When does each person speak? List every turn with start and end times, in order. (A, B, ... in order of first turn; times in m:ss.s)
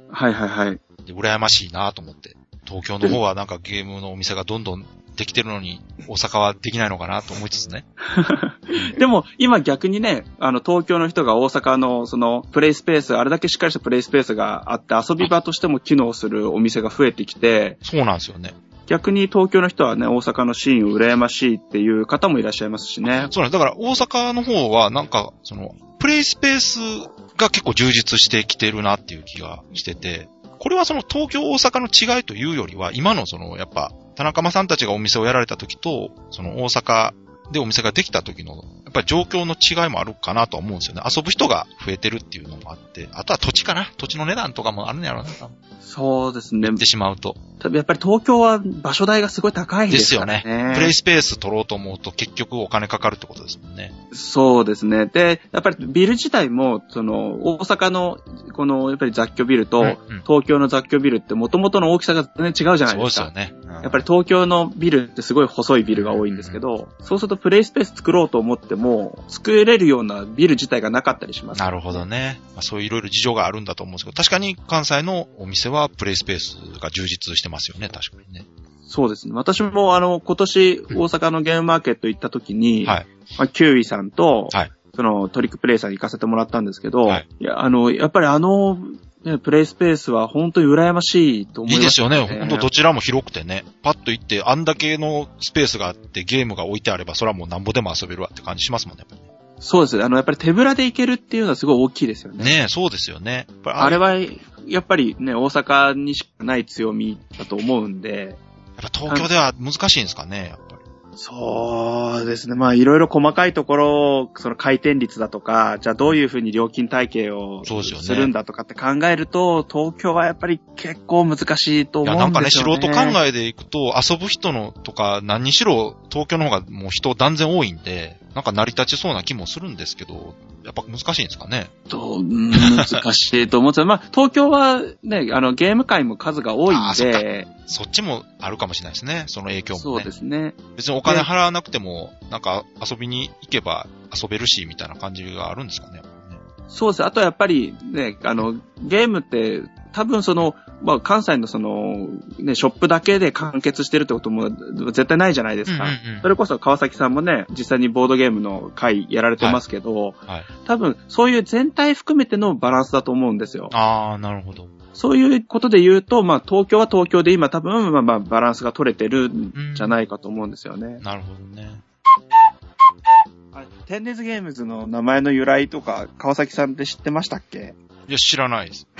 0:00.1-0:00.8 A
0:01.0-0:07.9 B
0:08.1-0:17.8 A
0:17.8-0:18.6 B
0:18.9-0:23.3 A
0:23.0-0:45.5 B
0:45.8-0:46.8 A
0:46.6-0:47.4 B
0:47.6-0:50.9 A
0:49.9-0:53.9 B
0:54.1-1:12.0 A
0:59.8-1:00.2 B
1:02.9-1:04.0 B
1:05.9-1:06.6 B
1:11.5-1:18.5 B
1:18.9-1:32.7 A
1:31.7-1:39.2 B
1:39.6-1:42.5 A
1:42.4-1:44.0 B
1:43.8-1:48.4 A
1:48.8-1:50.8 B
1:51.2-2:03.2 A
1:57.6-1:58.3 B
2:02.0-2:11.7 B
2:11.9-2:17.5 A
2:12.6-2:13.0 B
2:16.7-2:20.1 B
2:19.7-2:21.3 A
2:20.7-2:26.4 B
2:26.7-2:43.7 A
2:35.7-2:36.3 B
2:43.7-2:44.7 B
2:44.9-2:51.0 A
2:49.5-2:50.0 B
2:51.0-2:51.8 B
2:53.5-2:57.8 A
2:58.1-2:58.9 B